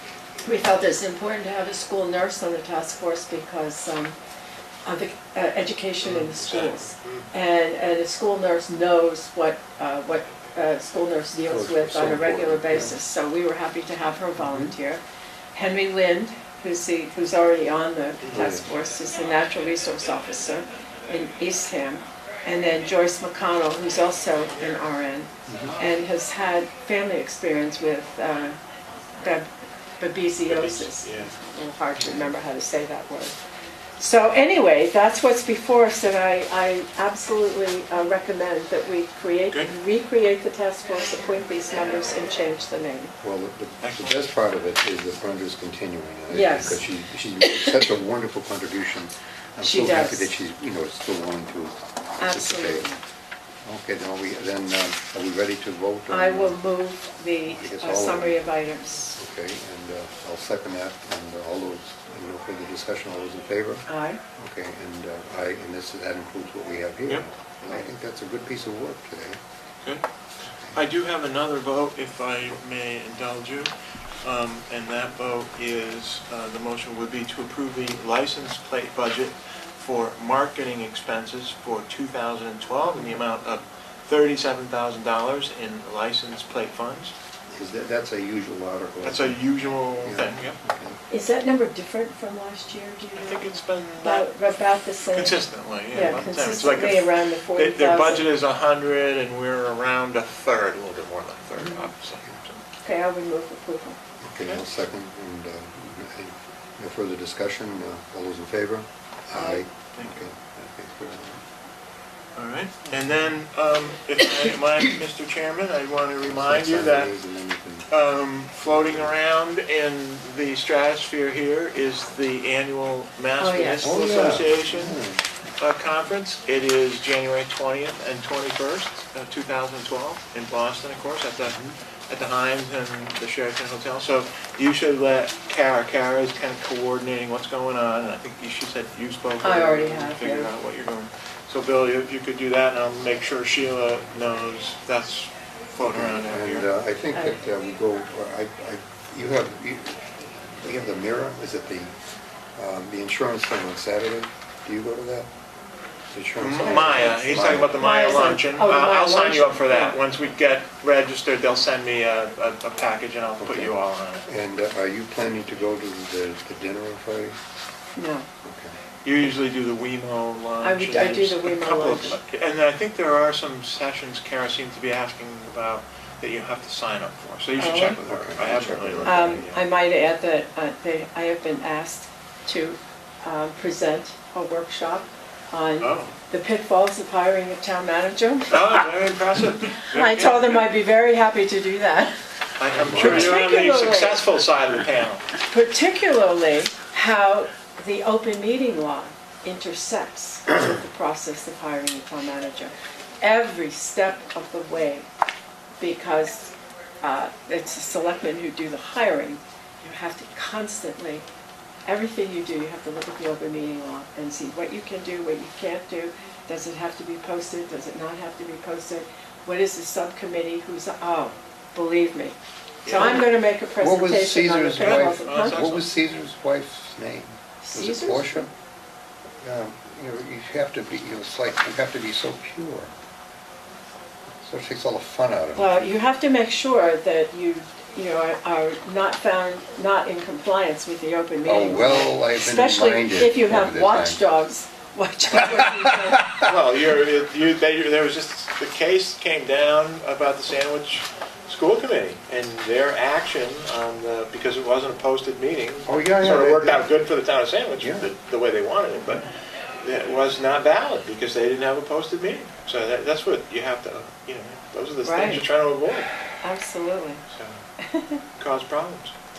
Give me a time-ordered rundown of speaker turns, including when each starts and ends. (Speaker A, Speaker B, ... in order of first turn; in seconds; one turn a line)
Speaker A: 0.4-4.1
Speaker A: 4.8-15.0
Speaker B: 6.0-7.3
Speaker C: 11.5-12.9
Speaker C: 14.4-14.7
Speaker A: 15.5-28.6
Speaker C: 18.2-18.7
Speaker A: 29.2-29.5
Speaker A: 30.0-33.4
Speaker B: 30.4-31.3
Speaker A: 34.0-43.1
Speaker C: 43.2-52.9
Speaker B: 43.8-44.2
Speaker A: 46.3-46.8
Speaker A: 49.6-50.3
Speaker A: 52.2-53.0
Speaker C: 53.6-56.6
Speaker A: 56.1-59.2
Speaker C: 57.5-58.4
Speaker C: 59.2-63.9
Speaker A: 63.9-64.2
Speaker C: 64.4-69.4
Speaker B: 70.7-73.7
Speaker B: 74.2-87.1
Speaker C: 87.5-89.4
Speaker B: 89.0-90.6
Speaker C: 90.0-91.0
Speaker A: 91.1-98.3
Speaker B: 93.1-94.3
Speaker B: 95.1-102.6
Speaker C: 101.6-102.3
Speaker A: 102.8-104.0
Speaker C: 104.2-111.4
Speaker B: 109.3-110.2
Speaker B: 112.3-117.1
Speaker C: 116.2-117.9
Speaker B: 117.9-125.0
Speaker C: 118.6-119.1
Speaker A: 123.4-124.0
Speaker C: 123.8-125.2
Speaker B: 125.6-146.7
Speaker C: 131.4-131.7
Speaker A: 139.4-140.5
Speaker C: 145.8-151.9
Speaker A: 147.1-147.4
Speaker C: 152.6-155.3
Speaker C: 156.1-157.8
Speaker B: 156.4-164.2
Speaker A: 156.6-160.0
Speaker C: 163.4-163.7
Speaker C: 164.2-167.4
Speaker A: 168.0-168.3
Speaker C: 168.4-168.7
Speaker B: 169.0-179.6
Speaker A: 170.6-172.2
Speaker A: 177.6-178.0
Speaker C: 178.0-179.2
Speaker A: 179.0-188.8
Speaker B: 185.8-186.1
Speaker B: 188.5-190.6
Speaker A: 189.8-192.1
Speaker B: 192.6-195.3
Speaker C: 192.7-193.4
Speaker A: 192.9-194.2
Speaker A: 195.4-205.1
Speaker A: 205.8-211.2
Speaker A: 211.8-225.7
Speaker B: 222.8-223.2
Speaker C: 223.8-228.5
Speaker B: 224.8-225.8
Speaker A: 227.6-228.5
Speaker C: 229.4-232.9
Speaker C: 234.4-235.9
Speaker A: 235.5-246.3
Speaker C: 241.4-244.2
Speaker C: 245.4-246.5
Speaker B: 246.4-259.2
Speaker C: 255.8-256.8
Speaker C: 257.8-258.1
Speaker B: 259.8-266.1
Speaker A: 265.0-265.4
Speaker A: 266.4-267.2
Speaker B: 267.3-267.6
Speaker A: 267.8-268.2
Speaker B: 268.4-269.1